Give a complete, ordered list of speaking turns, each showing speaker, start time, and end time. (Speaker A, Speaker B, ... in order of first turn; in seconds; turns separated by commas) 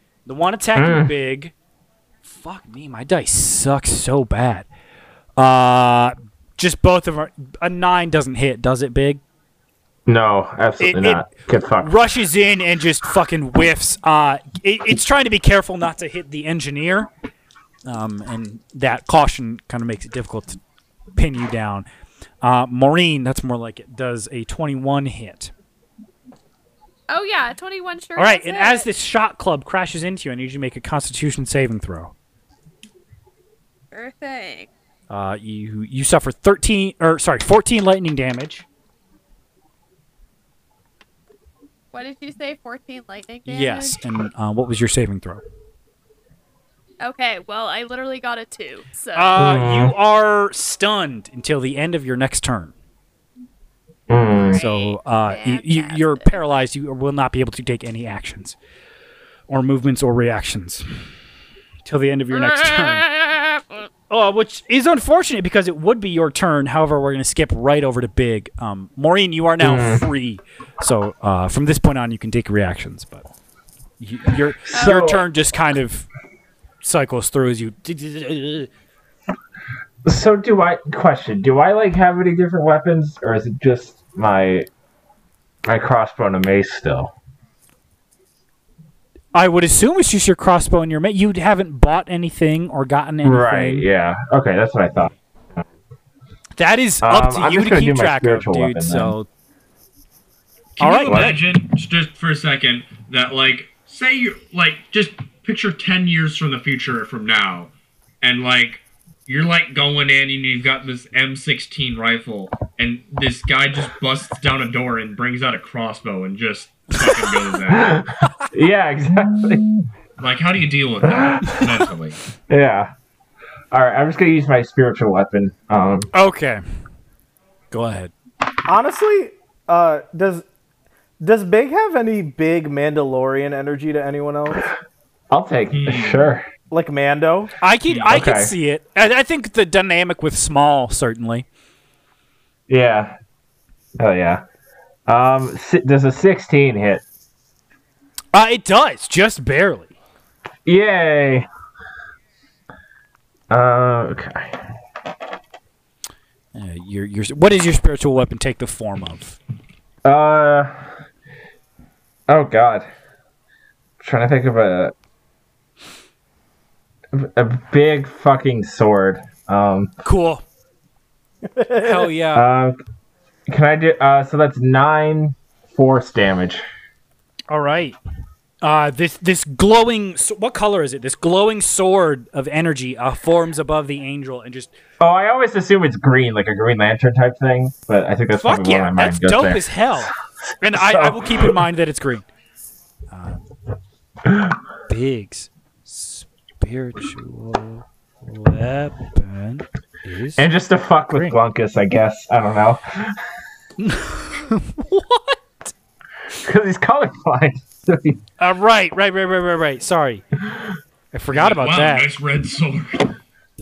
Speaker A: 0.2-1.5, Speaker B: 0.7-1.1, Speaker A: 2.2-4.7, Speaker A: 5.4-9.2, Speaker B: 10.1-11.9, Speaker A: 10.8-11.3, Speaker A: 11.8-17.1, Speaker A: 17.9-20.6, Speaker A: 21.1-21.9, Speaker A: 22.4-25.5, Speaker C: 27.1-28.9, Speaker A: 28.1-32.1, Speaker C: 33.9-34.7, Speaker A: 35.1-38.6, Speaker C: 41.9-44.0, Speaker A: 43.5-45.4, Speaker C: 47.0-49.4, Speaker A: 49.1-52.7, Speaker B: 49.4-49.9, Speaker B: 54.1-54.6, Speaker C: 54.3-56.4, Speaker A: 54.4-58.5, Speaker A: 59.5-61.0, Speaker A: 61.8-63.5, Speaker C: 62.5-63.2, Speaker A: 64.1-73.3, Speaker B: 69.6-70.0, Speaker A: 74.0-76.1, Speaker B: 74.7-75.2, Speaker C: 74.7-75.2, Speaker A: 76.8-78.7, Speaker B: 80.0-84.7, Speaker B: 85.6-87.1, Speaker A: 89.3-93.8, Speaker B: 93.2-95.1, Speaker A: 96.5-99.3, Speaker B: 97.0-99.1, Speaker D: 100.8-118.0, Speaker A: 100.8-101.4, Speaker B: 101.1-101.4, Speaker A: 117.0-117.3, Speaker B: 117.9-119.7, Speaker D: 120.2-122.2, Speaker B: 122.5-122.9, Speaker B: 123.7-126.1, Speaker A: 126.1-126.6, Speaker A: 127.7-128.1, Speaker E: 128.7-130.4, Speaker E: 131.2-134.7, Speaker B: 135.3-136.4, Speaker D: 135.7-136.3, Speaker E: 136.7-137.5, Speaker A: 137.6-141.4, Speaker D: 137.9-138.1, Speaker B: 138.1-138.5, Speaker B: 142.7-143.2, Speaker B: 144.0-144.4, Speaker B: 145.1-147.0, Speaker A: 148.3-149.9, Speaker B: 150.7-151.5, Speaker B: 153.5-154.5, Speaker A: 156.5-159.4, Speaker B: 160.0-160.9, Speaker B: 162.3-162.9, Speaker B: 164.0-164.9, Speaker B: 167.1-169.9, Speaker A: 170.0-170.4, Speaker E: 171.5-172.1, Speaker A: 171.8-172.5, Speaker B: 172.3-172.8, Speaker B: 173.5-176.6, Speaker A: 177.5-178.0, Speaker A: 178.6-184.7, Speaker B: 185.0-190.1, Speaker A: 188.3-192.2, Speaker B: 190.7-191.5, Speaker A: 193.1-193.5, Speaker A: 194.9-200.4, Speaker B: 200.4-203.2, Speaker A: 201.1-201.4, Speaker A: 203.8-205.7, Speaker B: 206.4-208.2, Speaker A: 208.4-210.2, Speaker A: 211.1-212.1, Speaker D: 211.3-213.1